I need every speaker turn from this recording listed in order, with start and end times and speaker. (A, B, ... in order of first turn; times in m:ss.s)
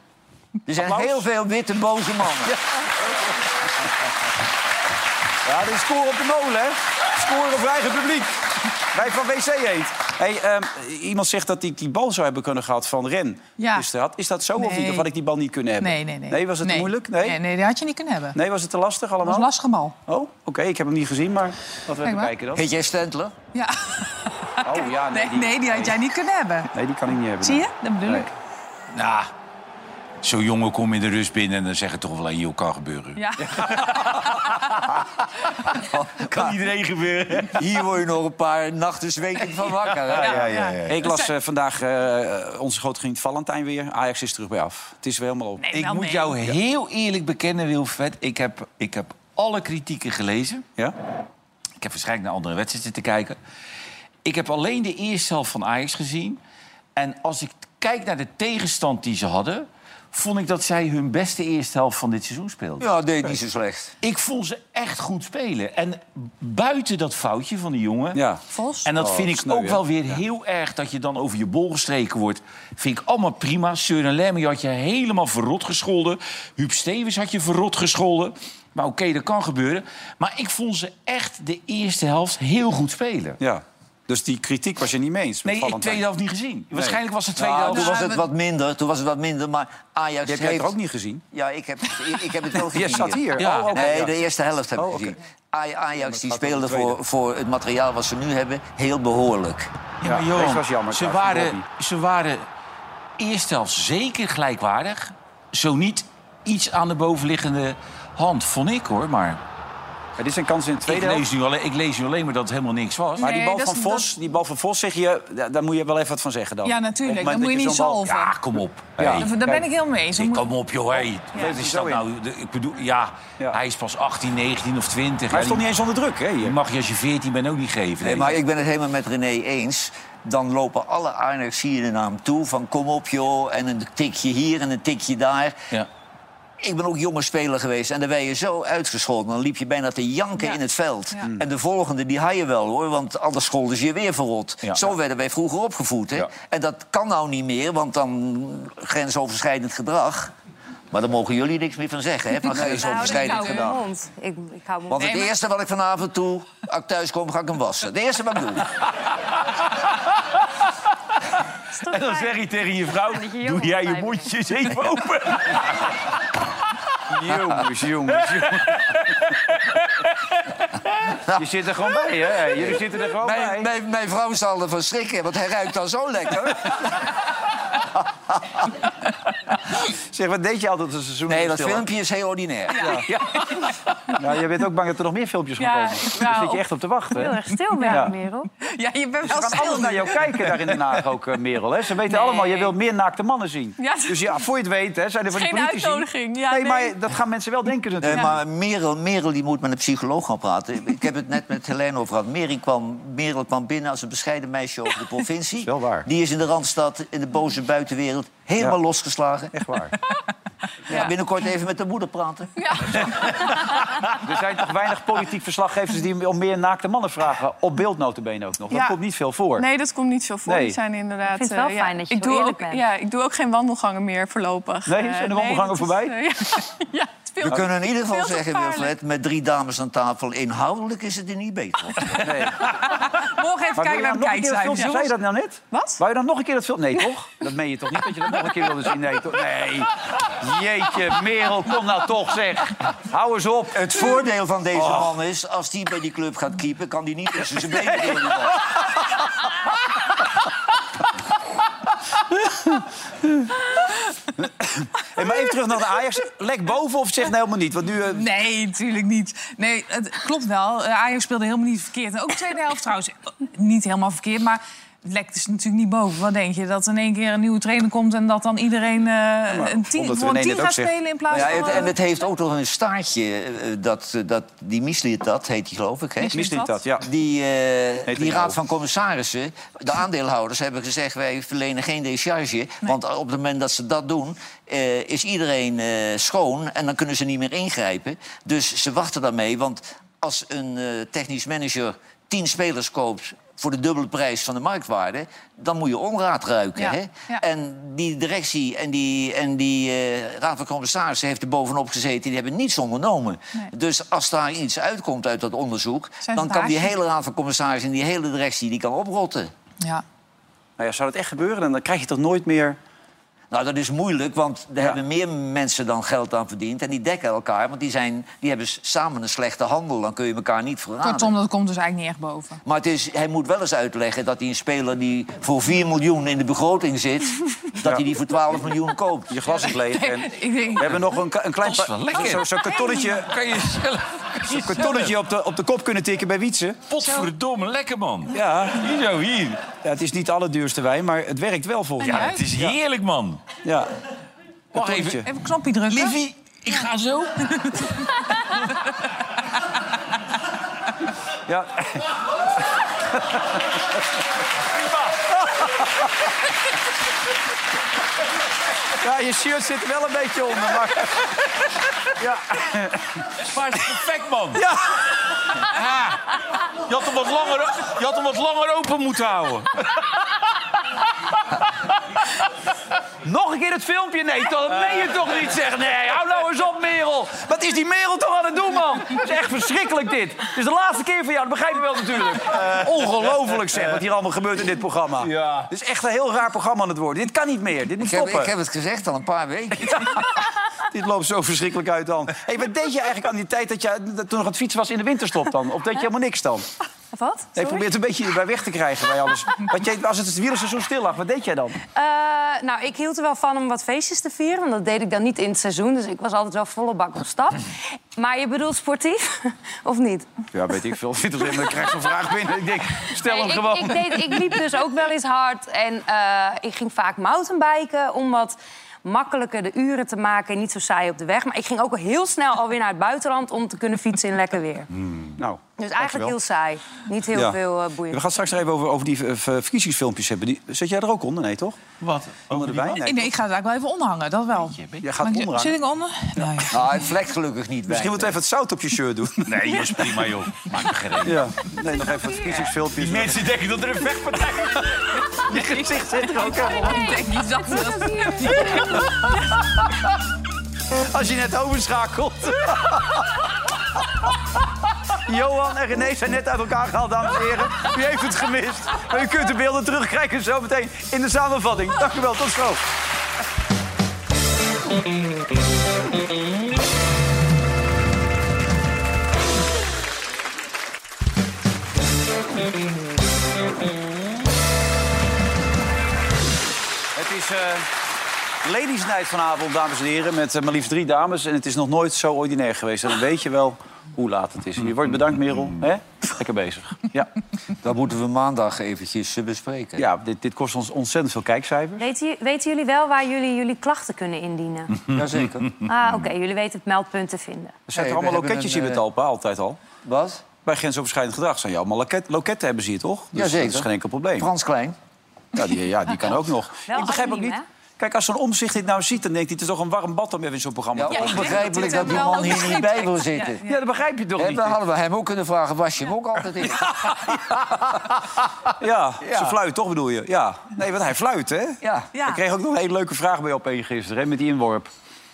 0:00.7-0:02.5 A
0:00.8-0:01.2 B
0:05.4-0:17.4 B
0:13.6-0:13.9 C
0:14.6-0:15.1 C
0:15.8-0:18.4 C
0:18.3-0:19.5 B
0:19.2-0:20.0 C
0:20.1-0:22.7 B
0:22.0-0:22.3 C
0:22.5-0:23.3 A
0:23.5-0:26.7 C
0:24.6-0:26.0 B
0:26.7-0:28.3 B
0:27.4-0:28.3 C
0:28.9-0:29.3 D
0:30.2-0:33.2 D
0:33.2-0:33.7 C
0:35.9-0:36.5 A
0:36.3-0:37.6 D
0:37.5-0:40.5 A
0:40.1-0:41.0 D
0:40.2-0:41.3 C
0:40.4-0:45.7 B
0:45.6-0:46.4 C
0:45.7-0:50.6 D
0:51.8-0:53.4 D
0:54.2-0:56.4 D
0:57.0-1:02.8 D
1:02.8-1:03.9 A
1:04.0-1:08.2 D
1:08.1-1:08.4 B
1:08.5-1:08.8 C
1:08.8-1:23.4 D
1:08.9-1:10.2 B
1:23.4-1:26.0 B
1:25.4-1:28.1 D
1:27.4-1:30.7 A
1:27.7-1:28.2 C
1:30.2-1:31.2 B
1:31.3-1:39.7 A
1:32.5-1:34.2 B
1:33.4-1:34.0 D
1:34.8-1:35.2 B
1:36.0-1:37.0 B
1:40.0-1:42.5 D
1:40.0-1:41.6 B
1:43.2-1:49.4 D
1:50.2-1:51.2 B
1:50.8-1:53.3 D
1:53.2-1:54.1 C
1:53.2-1:58.0 B
1:56.6-1:58.3 C
1:58.1-1:59.3 D
1:59.0-1:59.6 B
1:59.2-2:00.5 C
2:00.2-2:05.6 D
2:01.3-2:02.0 B
2:05.3-2:06.5 B
2:06.4-2:08.4 D
2:08.0-2:15.6 A
2:16.6-2:30.3 A
2:30.9-2:33.8 A
2:32.5-2:35.3 E
2:32.5-2:32.8 B
2:32.5-2:33.7 C
2:34.9-2:38.7 A
2:41.7-2:42.5 E
2:41.9-2:45.8 D
2:43.0-2:44.3 E
2:47.1-2:48.8 B
2:48.2-2:48.8 D
2:51.3-2:53.7 B
2:52.6-2:56.9 A
3:00.1-3:01.8 B
3:01.3-3:03.0 A
3:02.8-3:03.2 B
3:04.2-3:08.1 B
3:05.7-3:05.9 F
3:06.0-3:06.6 C
3:07.2-3:08.5 E
3:07.8-3:10.5 C
3:09.2-3:18.4 B
3:13.8-3:14.2 F
3:15.3-3:16.9 F
3:18.0-3:29.5 A
3:25.6-3:26.1 B
3:29.5-3:29.9 B
3:30.9-3:33.0 A
3:34.2-3:39.6 B
3:38.7-3:39.0 F
3:39.6-3:48.9 F
3:40.4-3:40.8 B
3:41.2-3:42.8 E
3:44.8-3:46.2 B
3:47.4-3:52.2 A
3:52.2-3:52.9 B
3:52.8-3:55.2 C
3:53.7-4:04.1 B
3:55.7-3:56.0 F
4:03.7-4:08.6 A
4:04.8-4:05.1 B
4:07.7-4:08.8 B
4:12.5-4:12.8 B
4:14.4-4:18.2 B
4:18.1-4:31.9 C
4:29.5-4:31.6 B
4:31.3-4:36.4 A
4:36.2-4:36.8 C
4:36.3-4:37.1 B
4:37.0-5:09.5 A
4:38.1-4:38.6 B
4:56.8-4:57.4 C
5:06.2-5:06.9 C
5:10.8-5:12.8 B
5:13.5-5:21.3 A
5:21.0-5:22.6 C
5:22.6-5:29.3 A
5:29.3-5:33.3 B
5:29.7-5:31.0 C
5:31.6-5:35.1 D
5:34.5-5:36.9 B
5:36.9-5:39.7 D
5:38.3-5:38.8 B
5:39.7-5:42.8 B
5:42.0-5:42.4 C
5:42.0-5:43.5 D
5:43.6-5:43.9 B
5:44.7-5:45.2 B
5:44.7-5:45.2 D
5:45.2-5:46.2 C
5:45.9-5:47.6 D
5:51.5-5:52.1 B
5:54.8-5:55.1 D
5:59.0-6:01.2 B
6:02.2-6:03.0 B
6:03.4-6:04.6 D
6:04.6-6:04.8 B
6:05.6-6:06.2 D
6:06.8-6:09.7 D
6:13.2-6:28.5 B
6:14.5-6:17.3 D
6:28.0-6:30.0 A
6:29.7-6:36.6 B
6:37.1-6:37.8 E
6:37.5-6:41.8 B
6:41.9-6:50.3 E
6:50.5-6:54.5 B
6:53.2-7:04.9 E
7:05.0-7:05.3 D
7:05.4-7:06.3 B
7:05.8-7:08.4 E
7:07.3-7:11.8 B
7:12.0-7:13.0 D
7:12.5-7:13.3 B
7:13.0-7:16.8 C
7:14.6-7:15.0 D
7:15.0-7:15.8 B
7:16.4-7:16.6 B
7:16.7-7:18.4 A
7:17.9-7:19.8 B
7:19.4-7:21.5 D
7:21.2-7:23.5 B
7:22.9-7:24.8 D
7:25.4-7:27.1 B
7:26.1-7:29.1 C
7:26.7-7:28.9 E
7:28.5-7:29.2 B
7:30.9-7:33.4 B
7:35.2-7:42.8 B
7:57.1-7:57.9 B
7:58.6-8:07.3 B
8:07.8-8:10.0 A
8:10.0-8:12.0 B
8:12.0-8:15.0 E
8:15.1-8:15.8 A
8:15.8-8:17.8 E
8:17.9-8:19.8 B
8:17.9-8:19.0 A
8:20.0-8:20.4 A
8:20.6-8:24.5 B
8:23.3-8:25.0 A
8:25.5-8:32.4 B
8:26.9-8:27.6 E
8:30.9-8:33.6 A
8:31.1-8:33.8 C
8:33.7-8:34.8 B
8:34.4-8:37.1 A
8:36.6-8:37.6 B
8:38.8-8:44.9 B
8:39.2-8:39.5 A
8:41.8-8:42.1 A
8:42.1-8:42.4 C